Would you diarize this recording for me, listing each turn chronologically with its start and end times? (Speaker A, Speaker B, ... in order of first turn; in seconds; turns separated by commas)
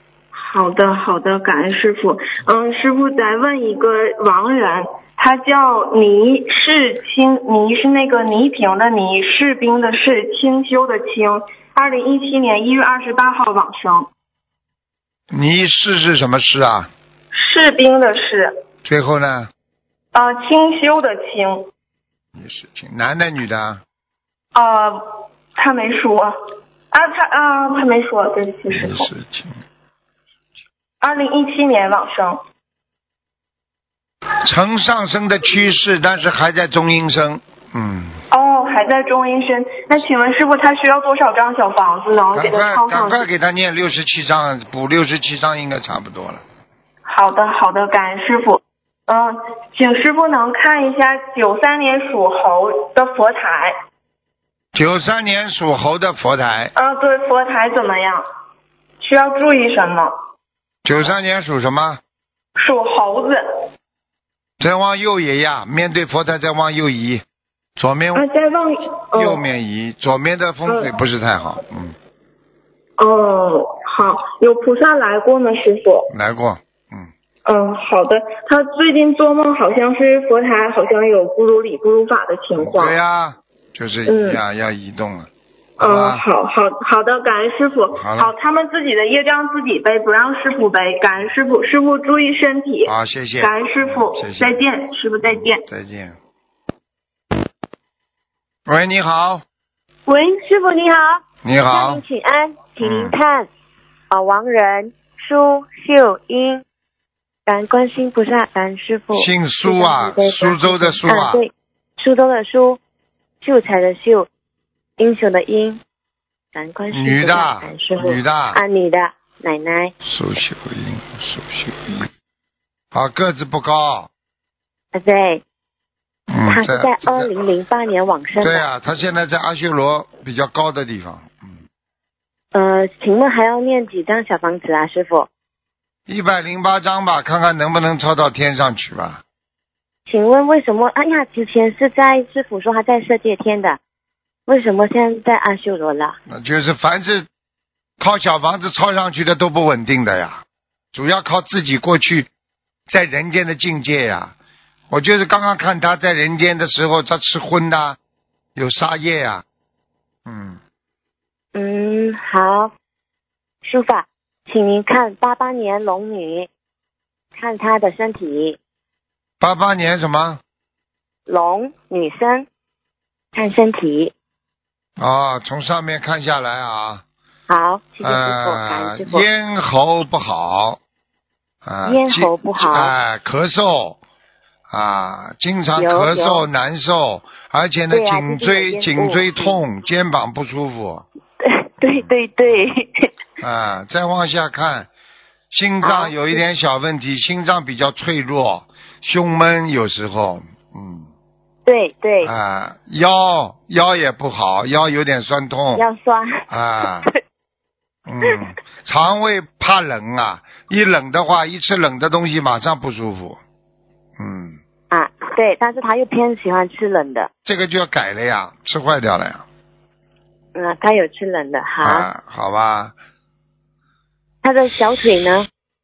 Speaker A: 0.3-14.1, Speaker B: 15.3-16.9, Speaker A: 17.3-18.6, Speaker B: 18.8-19.5, Speaker A: 20.1-21.7, Speaker B: 22.4-23.8, Speaker A: 24.5-24.9, Speaker A: 25.5-26.3, Speaker A: 26.9-29.1, Speaker B: 28.7-29.5, Speaker A: 31.0-32.4, Speaker B: 34.4-38.1, Speaker A: 38.3-43.3, Speaker B: 42.3-46.4, Speaker A: 47.0-53.7, Speaker B: 54.7-56.7, Speaker A: 56.8-58.2, Speaker A: 59.0-60.1, Speaker B: 60.8-62.0, Speaker A: 62.6-63.4, Speaker B: 64.6-67.2, Speaker B: 67.8-68.2, Speaker A: 68.1-69.4, Speaker B: 69.1-71.9, Speaker A: 70.7-70.9, Speaker A: 73.0-76.1, Speaker B: 76.1-77.1, Speaker A: 77.4-83.0, Speaker B: 82.6-85.3, Speaker A: 84.0-84.4, Speaker A: 85.8-95.6, Speaker B: 85.8-86.2, Speaker B: 88.0-88.3, Speaker B: 92.8-94.6, Speaker B: 95.2-96.2, Speaker B: 98.7-99.4, Speaker C: 100.1-103.5, Speaker B: 101.4-102.0, Speaker B: 102.8-103.2, Speaker C: 104.1-106.6, Speaker C: 107.5-112.8, Speaker B: 109.1-111.4, Speaker C: 113.4-114.3, Speaker C: 115.0-115.8, Speaker C: 116.5-119.9, Speaker B: 116.9-118.6, Speaker B: 120.0-122.1, Speaker B: 122.9-124.1, Speaker C: 124.9-125.4, Speaker B: 126.3-127.3, Speaker C: 126.5-128.7, Speaker B: 128.4-131.6, Speaker C: 132.5-135.3, Speaker B: 136.1-139.2, Speaker C: 140.1-143.8, Speaker C: 144.5-146.2, Speaker B: 146.3-147.3, Speaker B: 148.0-150.4, Speaker B: 150.9-152.3, Speaker B: 152.9-154.3, Speaker B: 154.9-158.0, Speaker B: 158.6-159.4, Speaker B: 160.2-160.6, Speaker C: 161.5-162.7, Speaker C: 163.6-166.5, Speaker C: 167.3-168.6, Speaker B: 169.4-170.4, Speaker C: 171.3-172.5, Speaker C: 173.3-174.1, Speaker B: 175.0-177.0, Speaker C: 177.5-179.2, Speaker B: 178.0-180.8, Speaker B: 181.6-184.0, Speaker C: 181.8-182.9, Speaker B: 184.7-191.0, Speaker C: 185.8-186.4, Speaker C: 187.9-189.6, Speaker C: 191.4-193.1, Speaker B: 191.9-192.6, Speaker B: 193.4-194.9, Speaker B: 195.5-201.1, Speaker C: 195.8-196.4, Speaker C: 201.7-202.3, Speaker B: 202.2-205.8, Speaker C: 205.8-206.4, Speaker B: 206.5-207.1, Speaker B: 208.1-213.4, Speaker B: 214.2-214.6, Speaker C: 214.9-217.3, Speaker B: 217.4-219.4, Speaker C: 220.5-222.1, Speaker B: 221.8-222.9, Speaker C: 224.4-225.5